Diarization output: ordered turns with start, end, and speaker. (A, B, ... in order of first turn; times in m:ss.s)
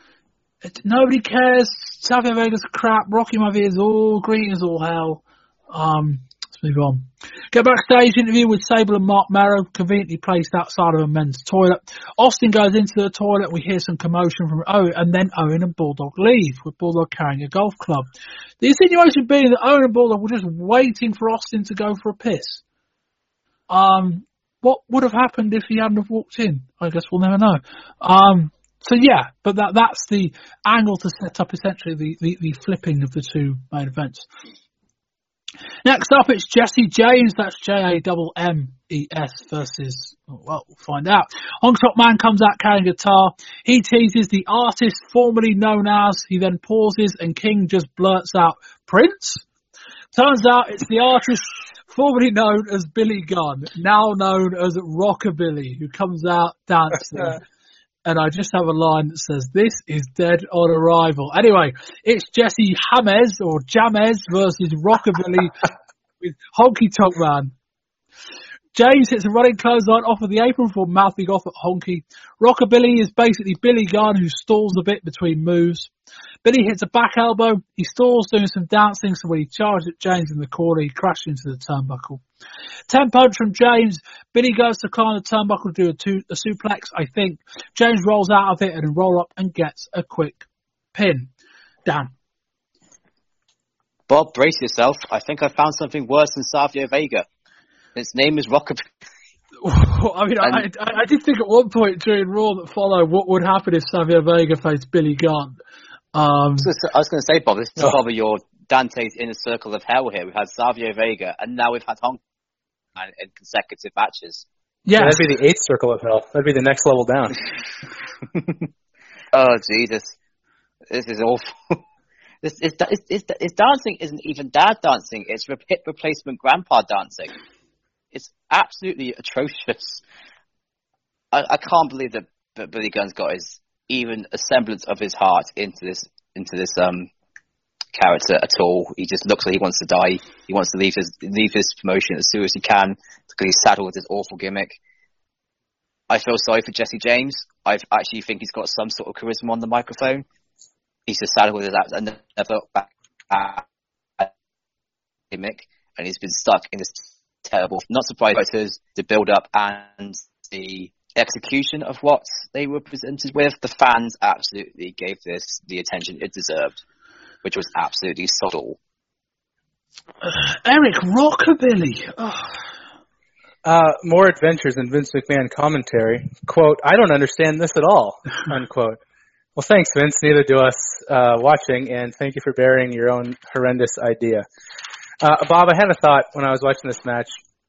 0:00.6-0:18.1 A
0:18.6-0:22.6 A
0:23.7-0:34.3 A
0:35.8-0:49.4 A
0:50.1-0:57.4 A
0:58.0-1:05.6 A
1:06.2-1:07.5 A
1:08.8-1:15.9 A
1:16.4-1:22.2 A
1:22.9-1:31.3 A
1:31.9-1:32.1 A
1:34.1-1:37.3 B
1:38.0-1:38.9 B
1:39.6-1:45.6 A
1:46.1-1:46.7 A
1:46.6-1:52.2 B
1:53.0-1:54.4 B
1:54.9-1:55.2 A
1:55.0-1:57.4 C
1:59.3-2:00.2 B
2:00.9-2:01.8 B
2:02.4-2:07.3 B
2:08.1-2:10.0 B
2:11.3-2:17.1 B
2:18.0-2:24.8 B
2:26.1-2:30.2 B
2:31.1-2:33.6 B
2:35.3-2:46.8 B
2:47.4-2:48.8 B
2:50.2-2:52.6 A
2:53.6-2:59.0 C
2:59.6-3:04.4 C
3:05.2-3:07.3 C